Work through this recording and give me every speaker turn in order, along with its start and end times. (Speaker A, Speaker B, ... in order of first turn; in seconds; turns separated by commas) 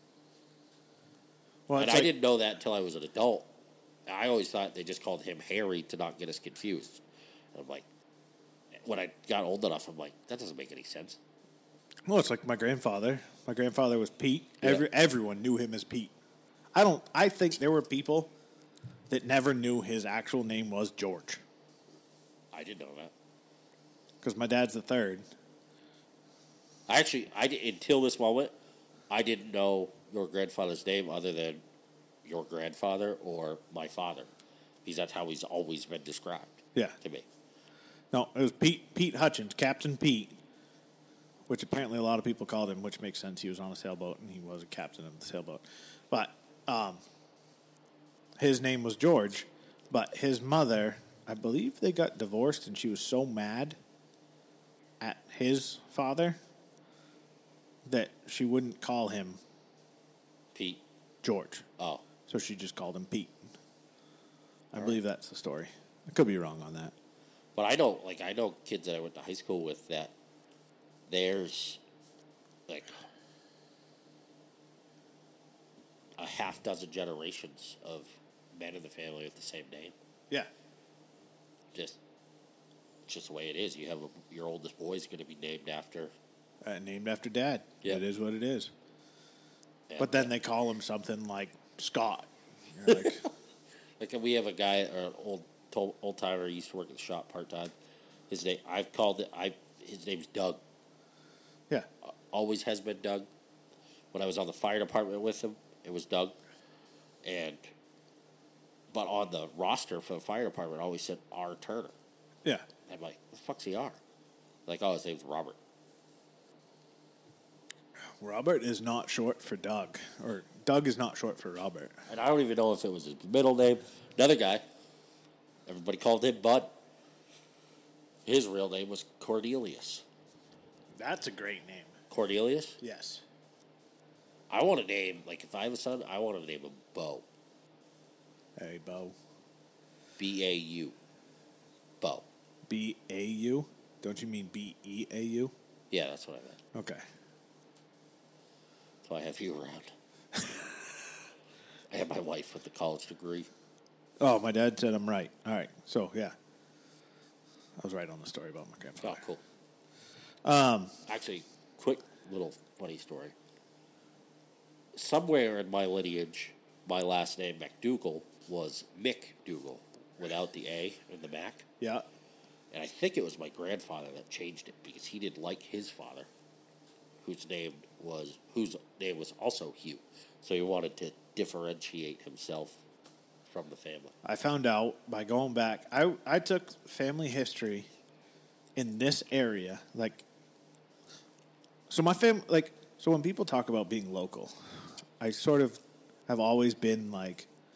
Speaker A: 1.7-2.1, Speaker B: 1.8-3.5, Speaker B: 4.1-7.0, Speaker B: 7.5-7.8, Speaker B: 8.8-11.2, Speaker A: 12.1-16.1, Speaker A: 16.7-18.3, Speaker A: 19.1-21.4, Speaker B: 22.5-23.1, Speaker A: 24.2-25.3, Speaker B: 26.9-28.5, Speaker B: 29.1-31.6, Speaker B: 32.2-34.3, Speaker B: 34.8-37.2, Speaker A: 38.1-40.4, Speaker A: 41.5-47.0, Speaker A: 48.4-53.8, Speaker A: 55.0-56.4, Speaker A: 57.9-59.4, Speaker B: 60.5-60.8, Speaker A: 61.2-61.7, Speaker B: 61.8-62.0, Speaker A: 62.3-63.5, Speaker A: 64.7-66.9, Speaker B: 67.5-70.1, Speaker B: 71.1-71.8, Speaker B: 72.7-73.0, Speaker B: 76.2-79.9, Speaker B: 81.7-82.0, Speaker B: 83.1-86.1, Speaker A: 86.6-88.7, Speaker B: 89.9-90.3, Speaker A: 90.0-93.2, Speaker B: 92.9-93.3, Speaker B: 94.0-97.7, Speaker B: 98.3-100.6, Speaker B: 102.0-103.3, Speaker B: 104.1-106.3, Speaker B: 107.2-107.6, Speaker B: 108.9-111.9, Speaker B: 112.8-114.0, Speaker B: 114.7-115.6, Speaker A: 118.2-122.0, Speaker B: 122.1-124.6, Speaker B: 125.7-126.8, Speaker B: 128.2-130.0, Speaker A: 131.0-131.9, Speaker B: 132.1-132.8, Speaker A: 132.8-133.2, Speaker B: 134.5-137.2, Speaker A: 138.6-139.2, Speaker B: 140.2-140.9, Speaker B: 142.0-142.2, Speaker A: 142.7-145.5, Speaker B: 145.9-146.6, Speaker A: 146.7-147.0, Speaker B: 149.0-149.9, Speaker B: 151.9-153.5, Speaker A: 154.2-156.3, Speaker A: 157.8-159.2, Speaker B: 159.0-159.4, Speaker A: 160.4-160.9, Speaker B: 161.1-163.3, Speaker B: 164.9-171.7, Speaker B: 172.7-176.3, Speaker B: 177.2-182.8, Speaker B: 183.5-184.1, Speaker A: 184.2-187.9, Speaker A: 188.8-190.2, Speaker A: 191.9-194.5, Speaker A: 195.2-197.5